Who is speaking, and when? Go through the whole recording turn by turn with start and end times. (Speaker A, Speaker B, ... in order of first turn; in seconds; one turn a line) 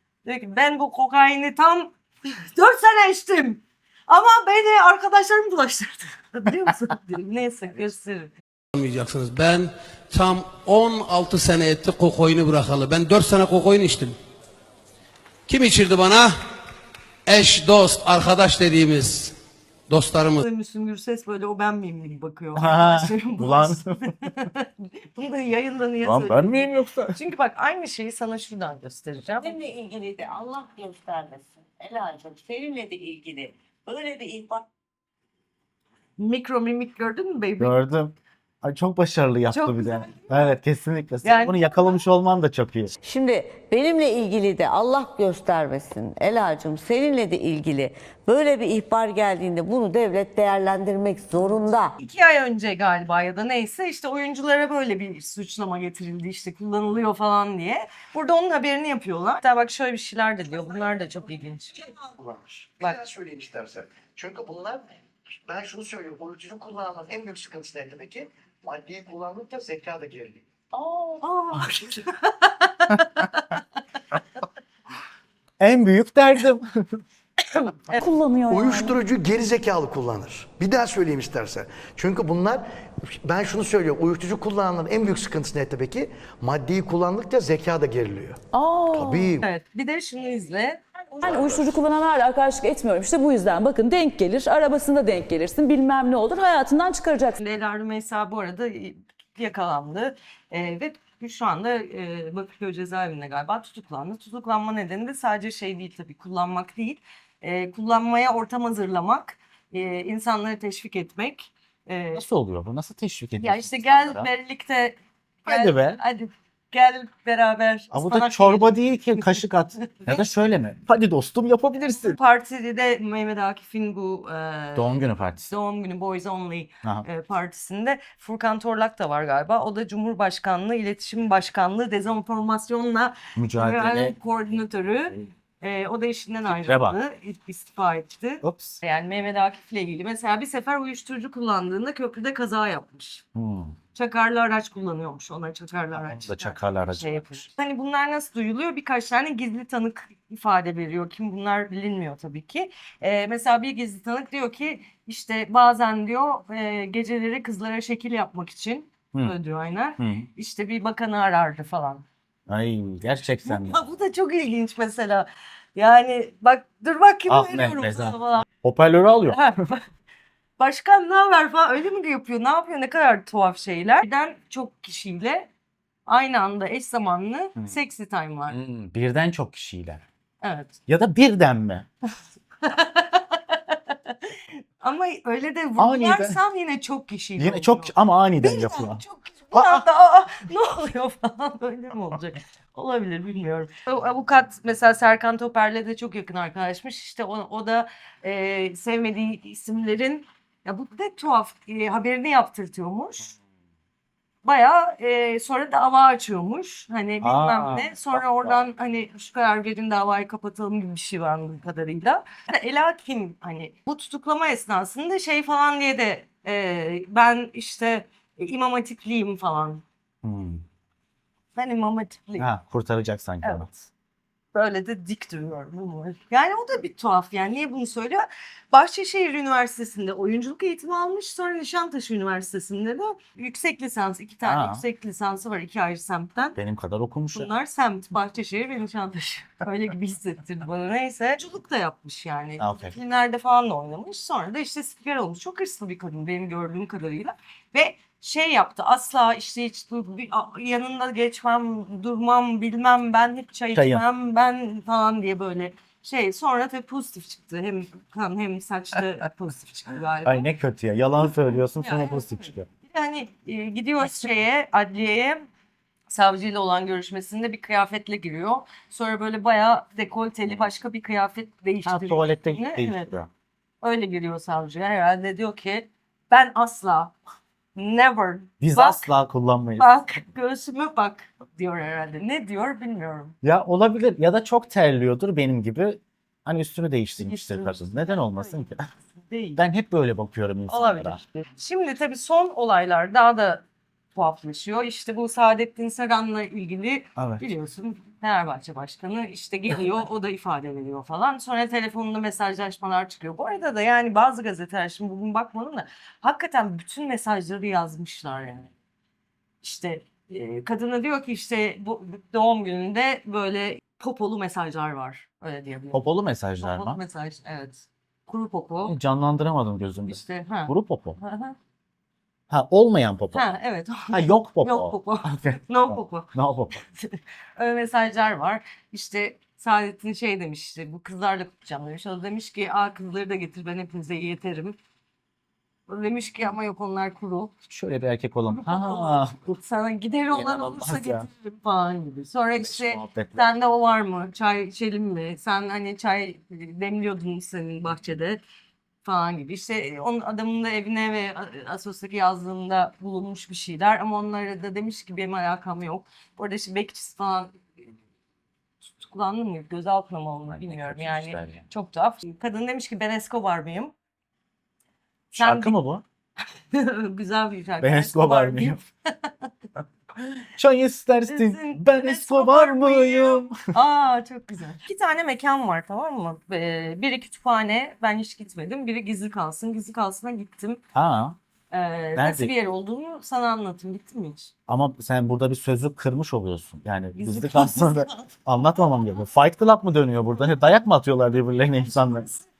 Speaker A: 0.2-8.3
Speaker B: 8.7-14.2
Speaker B: 15.5-16.4
Speaker B: 17.3-19.4
Speaker B: 19.9-20.4
Speaker A: 20.4-29.5
Speaker C: 22.6-24.0
Speaker C: 26.0-27.2
Speaker D: 29.4-34.6
Speaker A: 36.2-37.8
Speaker C: 37.6-42.9
Speaker A: 39.5-40.5
Speaker A: 41.2-42.0
Speaker D: 43.0-51.9
Speaker A: 52.0-61.8
Speaker E: 61.8-70.7
Speaker A: 71.2-73.6
Speaker C: 75.6-77.0
Speaker A: 77.7-78.0
Speaker F: 78.0-79.0
Speaker E: 78.5-89.5
Speaker F: 88.5-89.4
Speaker A: 89.4-90.8
Speaker F: 91.2-97.4
Speaker E: 91.2-91.7
Speaker A: 97.4-112.2
Speaker C: 112.1-114.3
Speaker A: 113.4-120.2
Speaker C: 115.5-116.0
Speaker C: 117.9-122.2
Speaker A: 121.9-143.2
Speaker C: 124.8-125.5
Speaker C: 133.4-134.2
Speaker C: 136.5-137.0
Speaker C: 138.4-138.8
Speaker C: 143.3-143.8
Speaker A: 143.9-162.1
Speaker C: 145.9-147.5
Speaker C: 160.0-160.3
Speaker C: 162.5-163.8
Speaker A: 163.4-168.5
Speaker C: 167.3-169.5
Speaker A: 169.3-169.8
Speaker A: 170.6-175.5
Speaker A: 176.1-178.6
Speaker C: 178.5-180.0
Speaker A: 180.4-180.8
Speaker C: 180.9-181.9
Speaker A: 182.6-203.3
Speaker C: 185.8-186.4
Speaker C: 187.4-189.8
Speaker A: 204.4-219.8
Speaker C: 207.2-208.6
Speaker C: 220.2-220.6
Speaker A: 221.6-222.5
Speaker C: 222.4-223.7
Speaker A: 223.4-223.9
Speaker A: 224.5-236.6
Speaker C: 234.4-234.8
Speaker C: 236.6-237.5
Speaker A: 237.3-260.5
Speaker C: 242.6-242.9
Speaker C: 253.7-254.0
Speaker C: 260.2-262.7
Speaker A: 261.8-265.5
Speaker A: 266.1-273.1
Speaker C: 271.9-273.3
Speaker A: 273.8-277.1
Speaker A: 277.8-279.1
Speaker C: 278.6-279.9
Speaker A: 279.8-283.4
Speaker C: 283.4-288.9
Speaker A: 287.2-289.6
Speaker C: 289.6-291.2
Speaker A: 290.7-293.6
Speaker A: 294.1-308.7
Speaker C: 297.2-297.4
Speaker A: 309.6-316.1
Speaker C: 315.9-317.0
Speaker A: 316.6-319.0
Speaker C: 318.8-321.2
Speaker A: 320.1-321.6
Speaker C: 322.5-323.5
Speaker A: 323.3-326.3
Speaker C: 324.1-326.9
Speaker A: 326.9-334.8
Speaker A: 335.9-337.5
Speaker C: 337.7-339.6
Speaker A: 338.6-348.4
Speaker C: 340.3-341.3
Speaker C: 342.6-343.4
Speaker A: 349.0-357.6
Speaker A: 358.8-363.9
Speaker C: 360.5-361.7
Speaker A: 365.3-365.8
Speaker C: 365.4-366.0
Speaker A: 366.7-369.5
Speaker C: 367.8-368.8
Speaker C: 370.2-373.7
Speaker A: 371.3-380.8
Speaker C: 380.9-381.4
Speaker A: 381.7-384.5
Speaker C: 382.2-382.5
Speaker C: 384.7-392.3
Speaker A: 387.1-388.3
Speaker A: 392.0-392.4